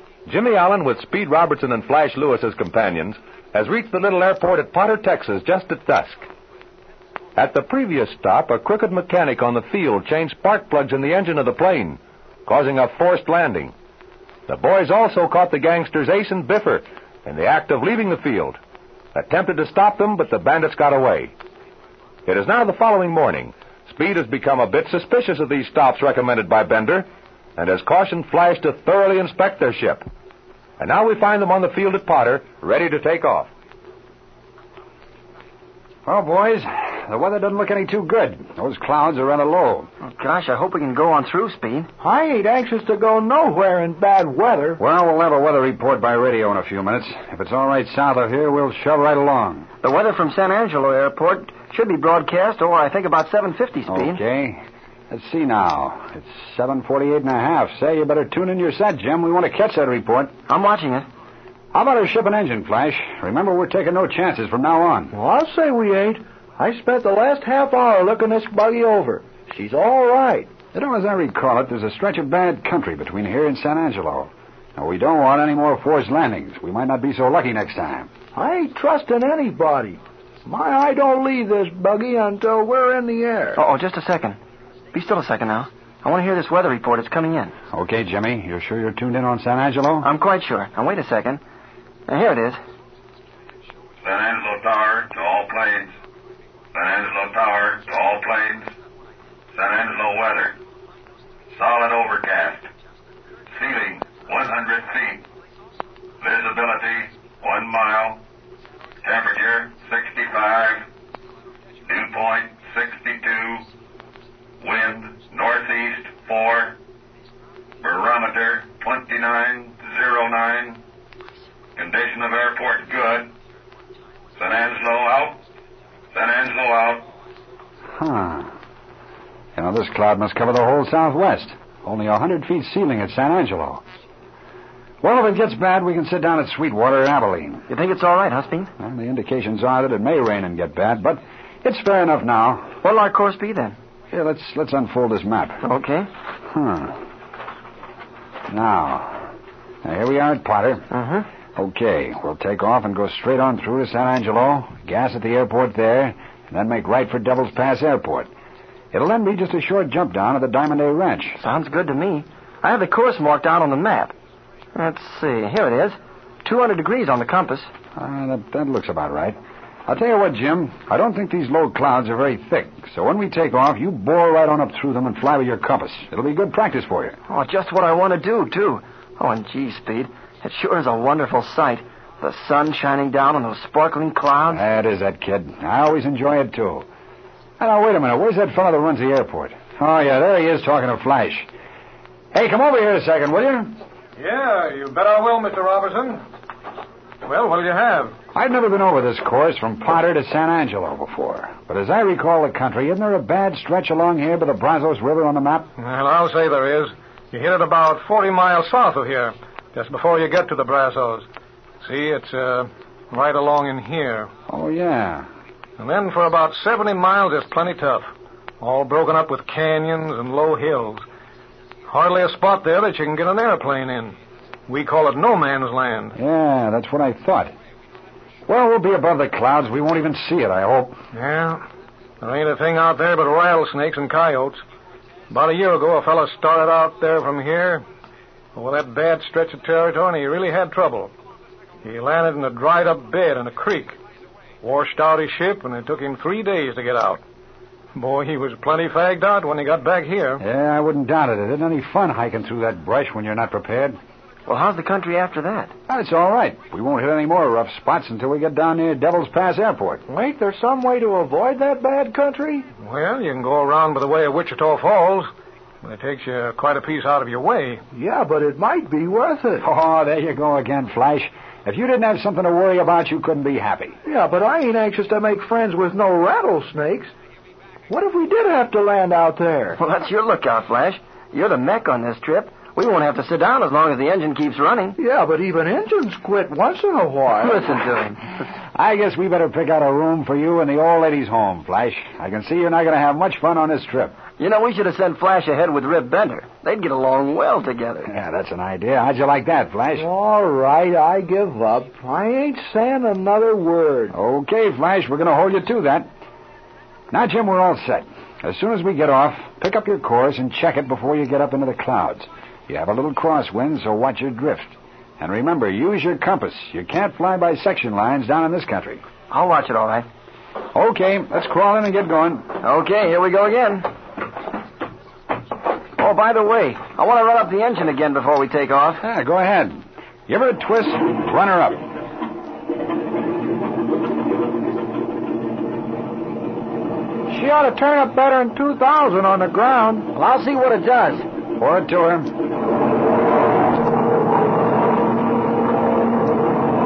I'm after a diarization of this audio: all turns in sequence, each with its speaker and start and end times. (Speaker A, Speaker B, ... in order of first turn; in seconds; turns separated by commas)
Speaker A: 0.3-6.3, Speaker A: 7.4-13.7, Speaker A: 14.5-18.6, Speaker A: 19.1-21.3, Speaker A: 22.3-30.0, Speaker A: 30.8-33.5, Speaker B: 36.1-39.9, Speaker C: 40.0-41.9, Speaker D: 42.0-44.8, Speaker B: 44.8-49.7, Speaker C: 49.8-54.2, Speaker B: 53.9-60.3, Speaker C: 60.5-61.1, Speaker B: 61.7-65.1, Speaker D: 65.1-70.5, Speaker B: 70.7-78.1, Speaker D: 78.3-83.6, Speaker C: 83.5-84.4, Speaker C: 84.9-87.5, Speaker B: 87.7-90.1, Speaker C: 90.0-91.4, Speaker C: 92.1-92.6, Speaker E: 94.0-95.9, Speaker E: 96.7-98.7, Speaker E: 99.5-100.5, Speaker E: 101.5-102.7, Speaker E: 103.6-105.2, Speaker E: 106.2-108.2, Speaker E: 109.0-110.8, Speaker E: 111.9-113.7, Speaker E: 114.6-116.8, Speaker E: 117.8-120.8, Speaker E: 121.8-123.3, Speaker E: 124.4-125.4, Speaker E: 126.1-127.0, Speaker B: 128.0-128.5, Speaker B: 129.6-133.8, Speaker B: 135.0-137.7, Speaker C: 137.7-138.7, Speaker B: 138.8-142.7, Speaker C: 142.8-143.8, Speaker B: 144.1-145.6, Speaker C: 145.6-146.1, Speaker B: 146.5-147.0, Speaker B: 148.5-149.2, Speaker B: 149.8-150.9, Speaker C: 150.9-151.3, Speaker B: 151.6-158.3, Speaker B: 158.9-161.4, Speaker C: 161.4-164.1, Speaker C: 164.8-167.7, Speaker B: 168.0-177.2, Speaker C: 177.3-184.7, Speaker B: 184.5-186.9, Speaker B: 187.6-191.5, Speaker B: 192.3-193.8, Speaker F: 194.2-196.2, Speaker F: 197.2-198.1, Speaker B: 198.3-205.7, Speaker F: 205.8-211.2, Speaker F: 211.8-214.3, Speaker B: 214.5-215.3, Speaker F: 215.8-218.1, Speaker F: 218.6-221.1, Speaker F: 221.9-224.2, Speaker F: 224.7-226.2, Speaker B: 226.2-227.5, Speaker B: 228.5-231.0, Speaker F: 231.1-231.6, Speaker F: 232.2-234.6, Speaker F: 235.3-237.8, Speaker F: 238.6-241.1, Speaker F: 241.8-244.0, Speaker F: 244.6-247.2, Speaker F: 247.9-250.4, Speaker B: 250.4-254.0, Speaker C: 254.5-255.7, Speaker B: 255.9-260.0, Speaker D: 260.1-262.7, Speaker F: 262.8-265.3, Speaker F: 265.8-267.8, Speaker D: 267.9-269.7, Speaker B: 269.6-274.0, Speaker D: 274.1-277.1, Speaker D: 277.9-279.8, Speaker C: 279.8-285.0, Speaker D: 285.0-287.7, Speaker C: 287.4-288.2, Speaker B: 288.7-294.2, Speaker C: 294.4-298.1, Speaker B: 298.1-300.1, Speaker D: 300.0-304.1, Speaker B: 304.1-306.1, Speaker B: 307.1-319.0, Speaker C: 319.3-320.1, Speaker B: 320.7-322.6, Speaker C: 322.6-323.9, Speaker C: 326.0-329.0, Speaker B: 329.0-331.8, Speaker D: 337.3-340.1, Speaker C: 340.1-341.2, Speaker B: 341.6-342.3